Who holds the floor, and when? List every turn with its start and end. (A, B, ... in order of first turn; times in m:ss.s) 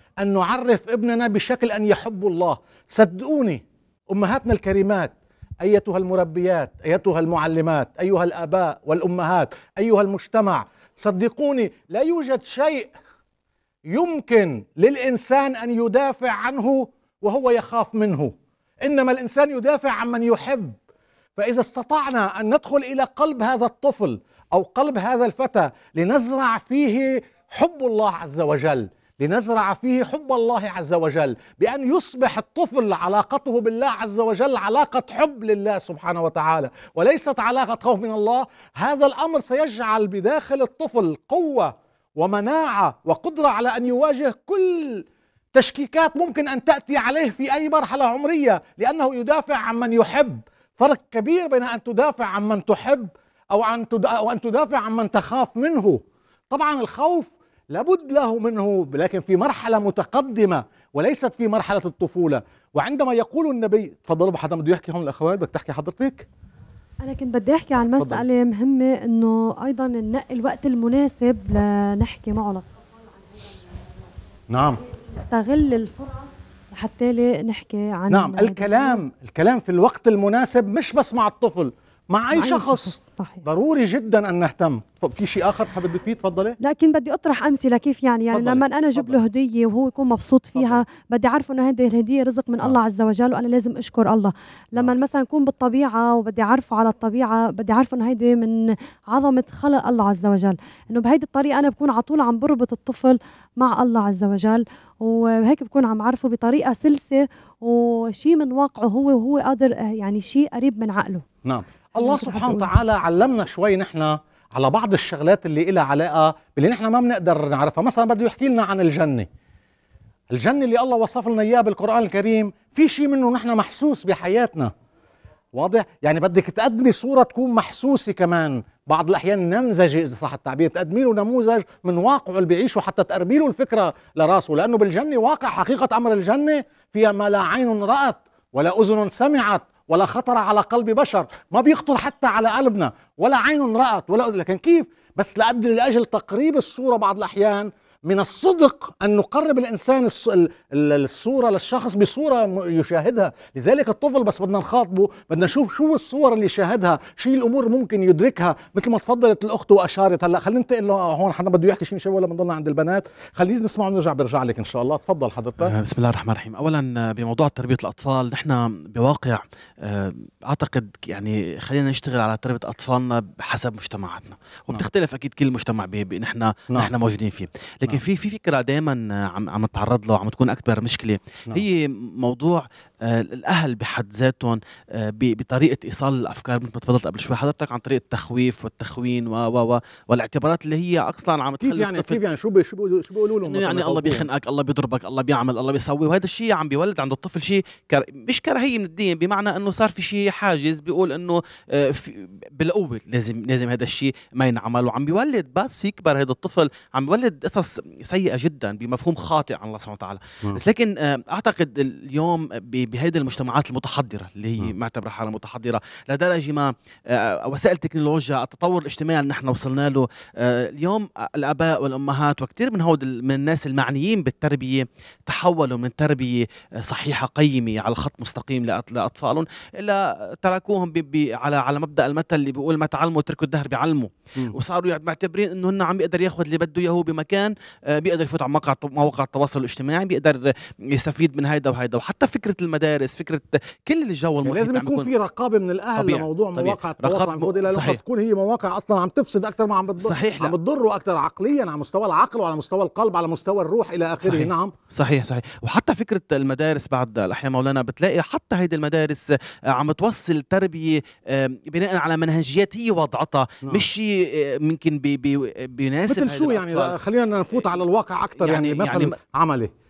0:00.2-0:13.0 A
0:13.9-0:20.8 A
0:21.4-1:06.3 A
1:07.0-1:12.6 B
1:08.0-1:08.2 A
1:14.5-1:14.8 A
1:15.2-1:19.0 B
1:18.1-1:26.6 A
1:22.3-1:23.4 B
1:26.6-1:51.2 B
1:28.3-1:29.2 A
1:30.6-1:30.8 A
1:51.4-1:59.3 A
1:52.0-1:52.7 B
2:00.3-2:04.7 A
2:05.5-2:45.7 A
2:45.6-3:12.2 C
3:11.6-3:14.3 A
3:13.5-4:05.1 C
4:04.4-4:14.7 A
4:06.0-4:08.0 C
4:10.0-4:10.5 C
4:14.2-4:27.0 C
4:26.1-4:29.7 A
4:28.4-4:29.1 C